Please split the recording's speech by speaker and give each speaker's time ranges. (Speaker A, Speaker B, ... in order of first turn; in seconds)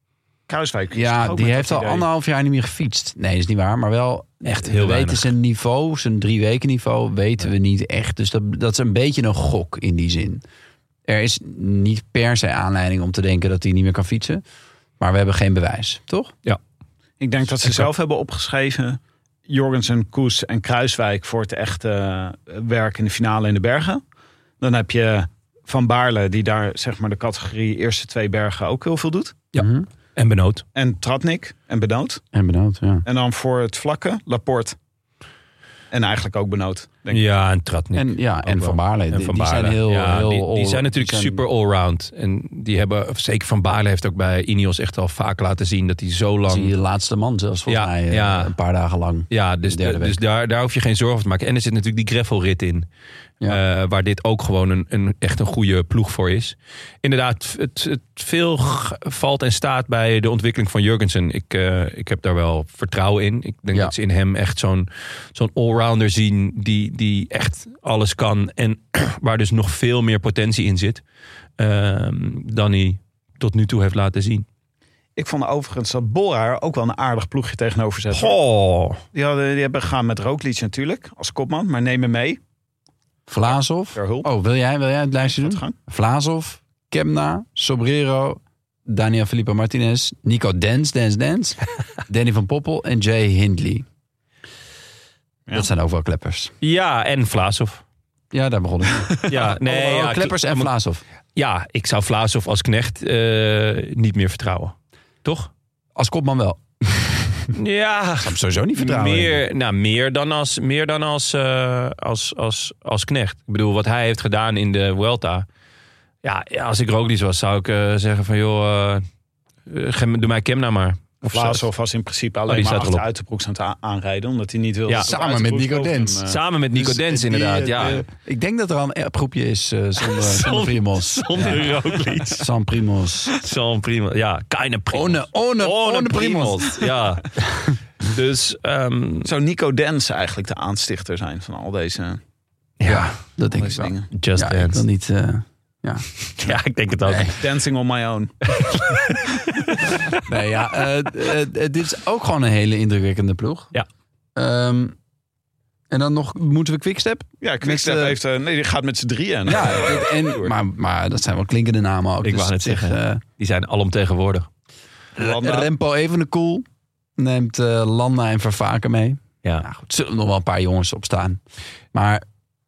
Speaker A: 0.5-2.0, 17.2-24.0, 24.6-29.4, 30.7-32.2, 33.0-34.8, 35.9-37.2, 75.2-78.3, 79.1-82.4, 83.9-84.3, 85.3-85.7, 121.3-126.4, 139.2-142.2, 143.5-144.1, 147.4-148.3, 157.4-160.5, 165.2-165.7
Speaker B: 0.9-10.4, 11.1-14.4, 15.0-16.3, 29.5-29.9, 32.3-33.0, 37.9-41.4, 46.5-50.2, 83.3-93.8, 95.5-96.5, 98.3-101.0, 106.0-107.5, 108.2-109.4, 125.0-133.4, 134.9-137.8, 142.8-146.1, 147.1-147.3, 150.2-153.7, 154.3-154.9, 155.9-158.2, 159.4-163.2, 165.2-166.6, 167.2-171.4, 171.9-172.2
Speaker C: 4.4-5.3, 29.5-30.6, 37.1-46.7, 47.7-48.5, 49.3-52.9, 53.5-71.0, 71.6-74.5, 78.1-79.0, 96.6-97.8, 99.3-100.7, 101.3-105.5, 107.5-115.5, 116.2-119.0, 119.7-121.6, 122.5-123.0, 124.9-125.1, 126.2-128.0, 130.0-132.5, 133.3-137.4, 138.0-139.3, 142.8-143.2, 144.1-144.8, 146.3-147.4, 148.6-149.2, 162.2-164.5